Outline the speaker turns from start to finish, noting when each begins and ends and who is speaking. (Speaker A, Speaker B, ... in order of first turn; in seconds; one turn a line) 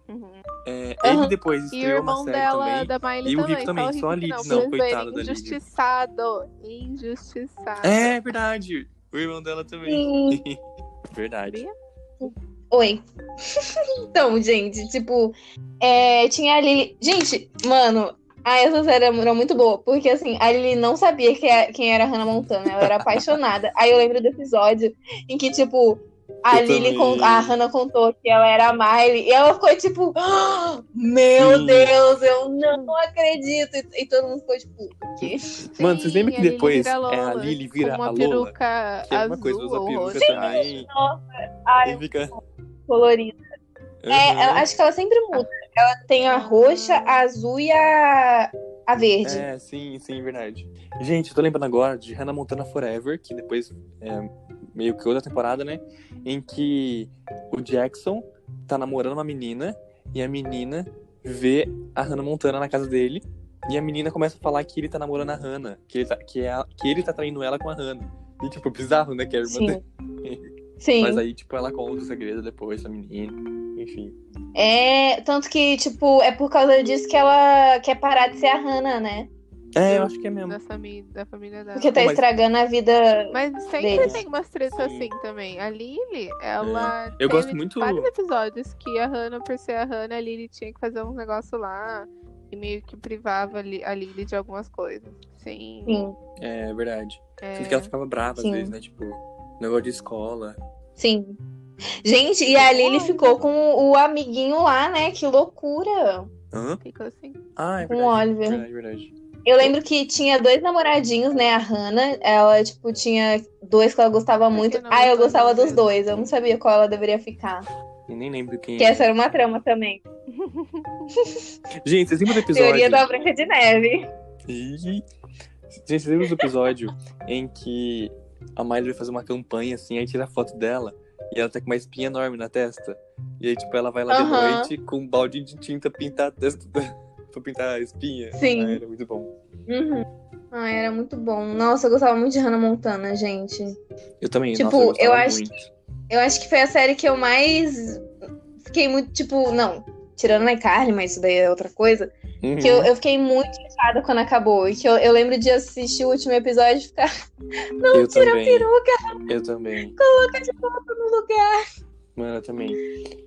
Speaker A: 0.1-0.5
Speaker B: 0.7-5.6
Speaker C: 1.0-1.3
Speaker A: 1.7-8.1
Speaker B: 7.8-10.6
Speaker C: 9.8-10.4
Speaker B: 11.1-11.6
Speaker A: 11.5-11.7
Speaker C: 12.2-13.0
Speaker C: 14.1-35.5
Speaker B: 22.8-23.1
Speaker B: 26.5-27.6
Speaker B: 31.4-31.9
Speaker A: 32.7-33.0
Speaker B: 35.2-38.5
Speaker A: 35.8-40.6
Speaker B: 39.1-40.9
Speaker C: 40.2-42.0
Speaker B: 41.8-42.4
Speaker C: 42.9-43.4
Speaker B: 44.0-44.7
Speaker C: 44.1-49.5
Speaker A: 46.3-47.2
Speaker B: 49.2-70.5
Speaker C: 69.4-69.8
Speaker C: 70.8-71.2
Speaker B: 71.0-74.2
Speaker C: 74.5-79.3
Speaker B: 79.8-80.6
Speaker A: 79.9-82.0
Speaker C: 81.8-84.2
Speaker B: 82.0-82.2
Speaker A: 83.3-96.0
Speaker B: 83.9-85.1
Speaker B: 86.6-88.1
Speaker C: 95.9-96.2
Speaker B: 96.4-100.6
Speaker A: 97.4-97.9
Speaker C: 98.4-98.7
Speaker C: 101.0-101.4
Speaker C: 102.0-106.3
Speaker A: 102.5-103.4
Speaker B: 106.5-106.8
Speaker A: 106.8-107.4
Speaker B: 107.6-109.7
Speaker C: 107.8-108.6
Speaker C: 109.5-117.7
Speaker A: 114.5-115.9
Speaker B: 118.1-119.1
Speaker C: 118.8-120.0
Speaker A: 120.3-121.1
Speaker C: 121.2-121.4
Speaker B: 121.8-123.3
Speaker C: 122.3-124.1
Speaker B: 124.5-125.0
Speaker B: 125.7-139.3
Speaker C: 134.1-134.7
Speaker C: 138.4-138.8
Speaker C: 139.7-143.8
Speaker B: 144.2-145.7
Speaker C: 144.6-145.4
Speaker C: 146.1-148.1
Speaker C: 148.6-157.1
Speaker B: 152.4-152.9
Speaker C: 157.8-159.3
Speaker B: 157.9-158.7
Speaker B: 159.3-159.9
Speaker C: 160.0-161.6
Speaker B: 162.2-162.8